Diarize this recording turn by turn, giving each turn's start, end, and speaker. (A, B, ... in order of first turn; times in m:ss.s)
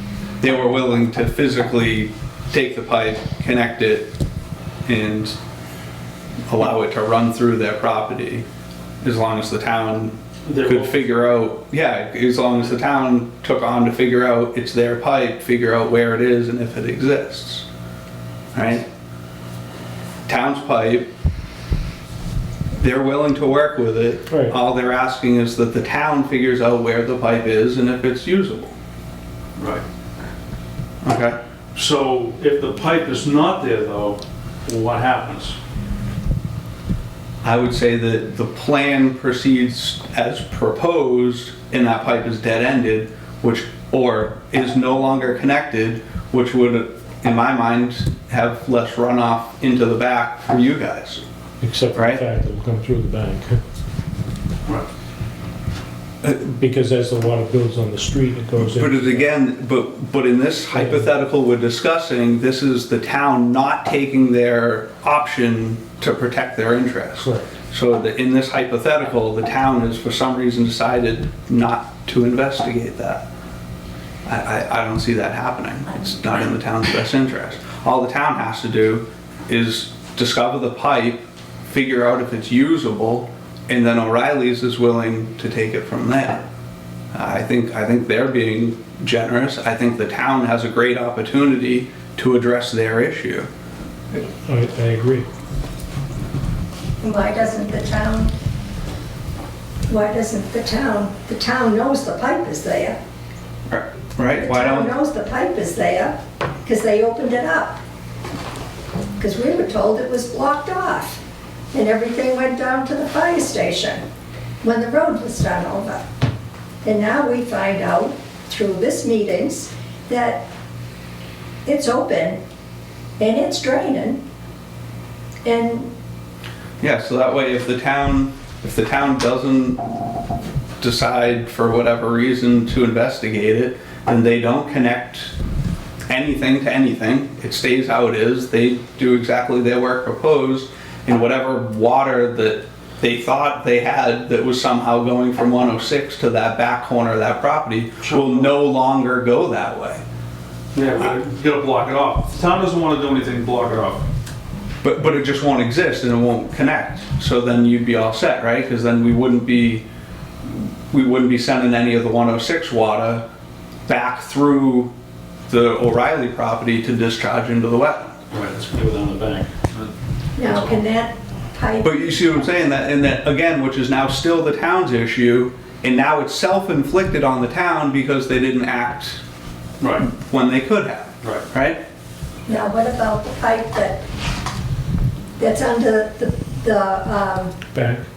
0:00.4-0:04.1 A
0:04.8-0:05.4 A
0:06.5-0:08.4 A
0:09.0-0:17.6 A
0:10.4-0:10.9 B
0:18.5-0:18.8 A
0:20.2-0:21.1 A
0:22.7-0:28.7 A
0:29.6-0:29.8 B
0:31.0-0:31.4 A
0:31.7-0:35.6 B
0:37.4-0:51.2 A
0:51.6-0:53.6 C
0:51.9-0:52.2 A
0:56.2-0:59.3 C
0:58.6-1:13.2 A
1:00.7-1:01.0 C
1:07.2-1:07.4 C
1:14.2-1:26.4 A
1:27.1-1:33.5 A
1:34.4-1:35.2 C
1:37.0-1:38.3 D
1:39.9-1:43.0 D
1:43.7-1:44.9 A
1:44.3-1:47.8 D
1:49.2-1:51.2 D
1:51.7-1:54.0 D
1:54.6-1:56.0 D
1:56.8-2:00.4 D
2:01.6-2:02.4 D
2:03.2-2:04.2 D
2:05.4-2:05.9 D
2:06.8-2:09.8 A
2:10.8-2:15.3 A
2:16.1-2:30.0 A
2:28.0-2:28.4 B
2:30.7-2:34.0 B
2:34.8-2:39.8 A
2:40.4-2:43.2 A
2:43.9-2:44.9 A
2:45.5-2:48.1 A
2:48.3-2:50.8 B
2:50.4-2:52.5 D
2:51.8-2:59.2 A
2:59.8-3:00.1 B
3:00.0-3:01.8 A
3:02.4-3:04.0 D
3:05.4-3:07.6 D
3:07.7-3:08.0 C